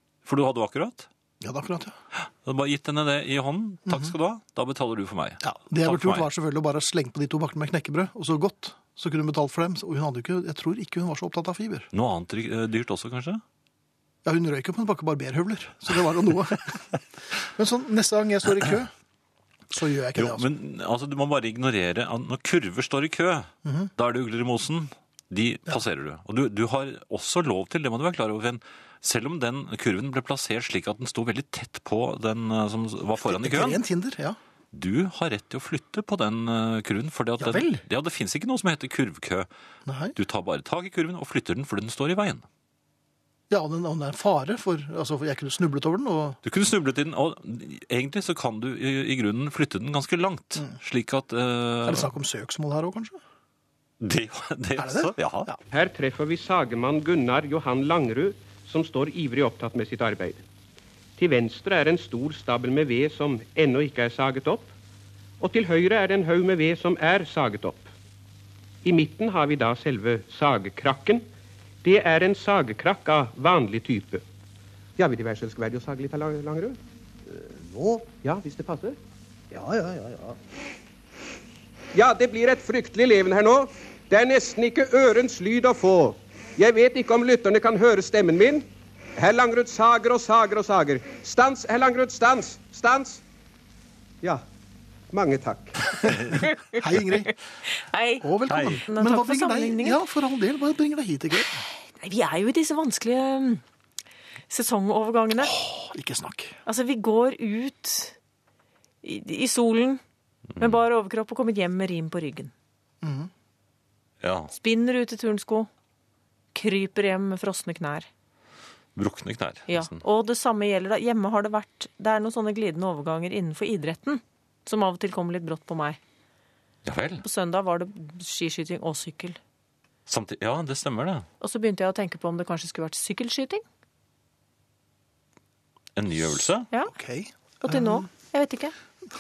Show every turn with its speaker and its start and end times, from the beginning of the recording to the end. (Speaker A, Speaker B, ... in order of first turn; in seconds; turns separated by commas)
Speaker A: 0.3-1.1, Speaker B: 1.4-2.0, Speaker A: 2.4-6.2, Speaker B: 5.4-11.9, Speaker A: 11.9-13.4, Speaker B: 14.2-16.8, Speaker B: 17.4-18.9, Speaker B: 19.7-20.5, Speaker A: 20.2-33.8, Speaker B: 23.6-23.9, Speaker B: 33.3-34.4, Speaker A: 34.7-39.5, Speaker B: 37.4-37.8, Speaker B: 39.9-40.1, Speaker A: 40.2-42.5, Speaker B: 43.5-46.4, Speaker A: 46.5-52.1, Speaker B: 51.8-53.2, Speaker A: 54.0-55.5, Speaker B: 54.8-55.6, Speaker C: 55.7-60.4, Speaker C: 61.2-64.7, Speaker C: 65.4-67.9, Speaker C: 68.8-71.2, Speaker C: 71.8-74.2, Speaker C: 75.0-79.0, Speaker C: 79.5-80.4, Speaker C: 81.9-93.2, Speaker C: 95.1-96.1, Speaker B: 96.3-97.3, Speaker D: 97.3-98.3, Speaker B: 98.2-101.6, Speaker A: 98.5-98.8, Speaker D: 98.9-100.0, Speaker D: 102.0-103.6, Speaker D: 104.5-105.5, Speaker B: 105.4-106.6, Speaker D: 106.7-108.2, Speaker D: 109.0-110.0, Speaker D: 110.6-112.5, Speaker B: 113.0-113.3, Speaker A: 114.2-114.5, Speaker D: 114.5-115.7, Speaker D: 116.5-118.1, Speaker A: 119.0-120.0, Speaker D: 119.7-126.0, Speaker A: 126.8-127.2, Speaker D: 127.2-129.4, Speaker A: 130.1-131.3, Speaker D: 131.4-133.6, Speaker A: 136.0-136.7, Speaker B: 136.9-138.1, Speaker D: 137.6-138.7